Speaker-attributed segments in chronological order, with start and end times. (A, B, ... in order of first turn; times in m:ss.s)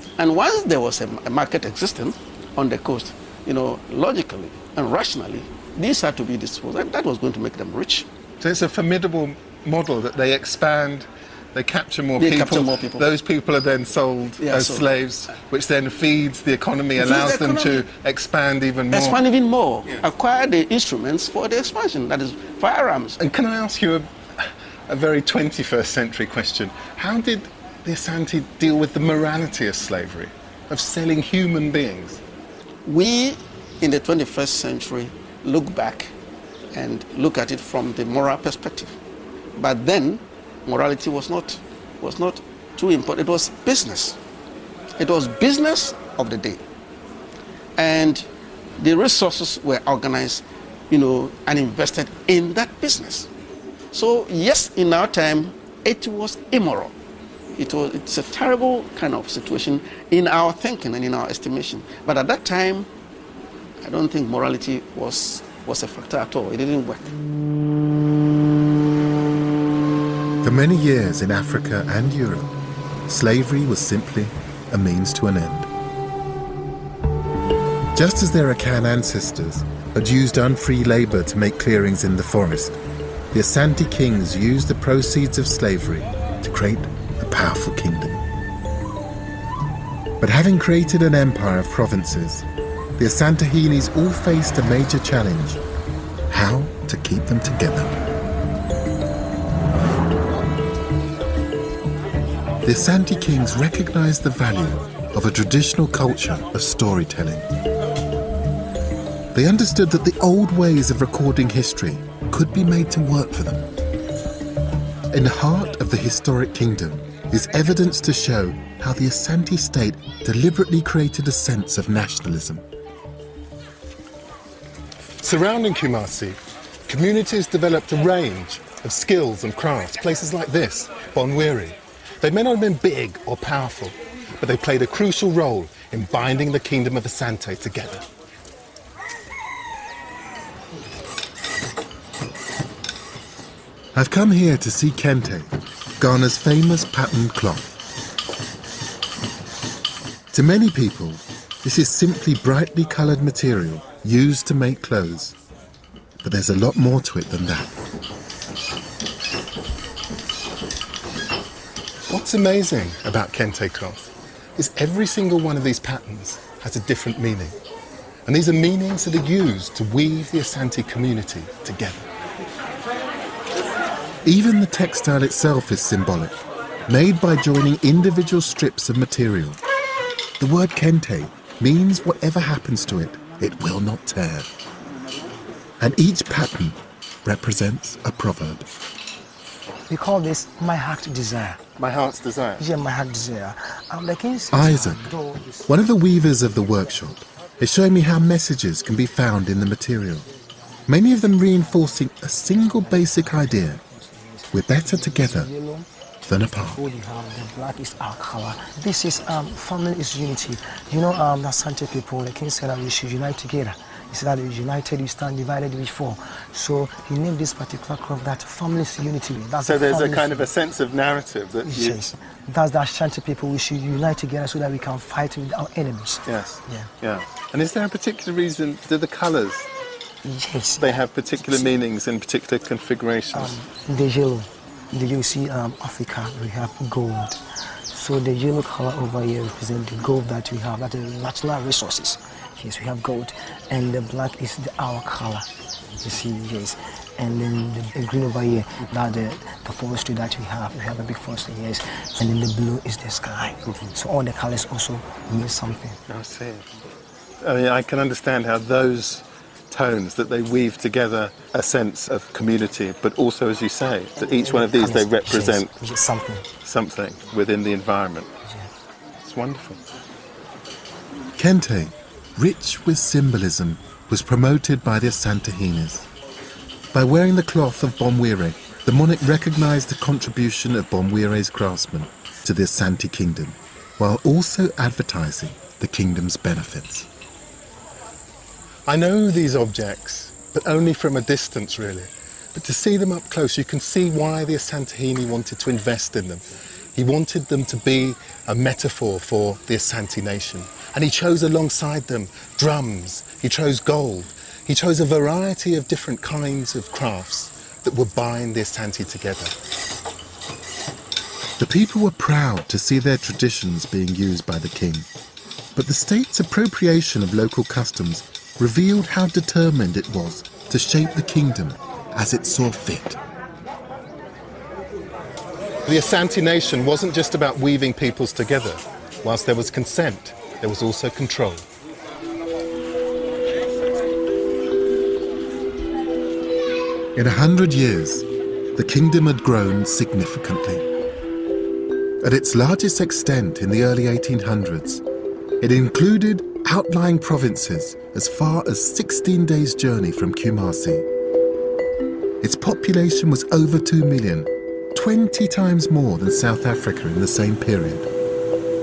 0:00.2-0:08.1 A
0:08.4-0:19.2 B
0:12.2-0:13.1 A
0:14.4-0:14.9 A
0:17.0-0:17.8 A
0:18.9-0:23.2 A
0:23.2-0:32.2 B
0:32.9-0:36.1 A
0:36.7-0:39.0 A
0:39.6-0:44.2 A
0:45.0-0:46.6 A
0:47.8-0:48.3 A
0:48.8-0:53.3 A
0:53.9-0:56.9 A
0:57.6-1:02.9 A
1:03.8-1:07.1 A
1:10.4-1:12.5 C
1:13.1-1:15.7 C
1:17.9-1:22.8 C
1:23.3-1:28.2 C
1:30.2-1:35.6 C
1:36.3-1:38.0 C
1:42.6-1:47.5 C
1:49.3-1:53.7 C
1:55.1-2:02.6 C
2:05.2-2:18.0 B
2:23.9-2:27.8 C
2:30.3-2:35.4 C
2:36.2-2:37.8 C
2:42.1-2:47.6 B
2:48.3-2:52.1 B
2:54.2-2:56.4 C
2:56.9-2:59.6 C
3:00.4-3:04.6 C
3:05.8-3:08.6 C
3:09.9-3:11.6 D
3:11.8-3:12.6 B
3:12.6-3:15.7 D
3:14.5-3:15.1 C
3:15.7-3:20.3 C
3:20.9-3:23.8 C
3:22.9-3:25.9 D
3:24.5-3:25.5 C
3:26.2-3:26.8 C
3:26.6-3:40.5 D
3:39.6-3:42.0 B
3:41.6-3:46.9 D
3:46.3-3:49.7 B
3:50.2-3:51.7 D
3:50.8-3:53.5 B
3:53.3-3:57.4 D
3:57.9-4:05.5 D
4:06.0-4:16.0 D
4:16.1-4:16.7 B
4:17.4-4:25.7 B
4:24.2-4:26.4 D
4:26.6-4:28.3 B
4:29.2-4:29.8 B
4:31.4-4:36.1 C
4:36.9-4:47.1 C
4:48.9-5:09.5 B
5:11.6-5:15.1 C
5:15.8-5:23.2 C
5:25.9-5:31.7 B
5:37.2-5:40.8 C
5:42.2-5:45.0 C
5:45.6-5:51.1 C
5:52.4-5:58.1 C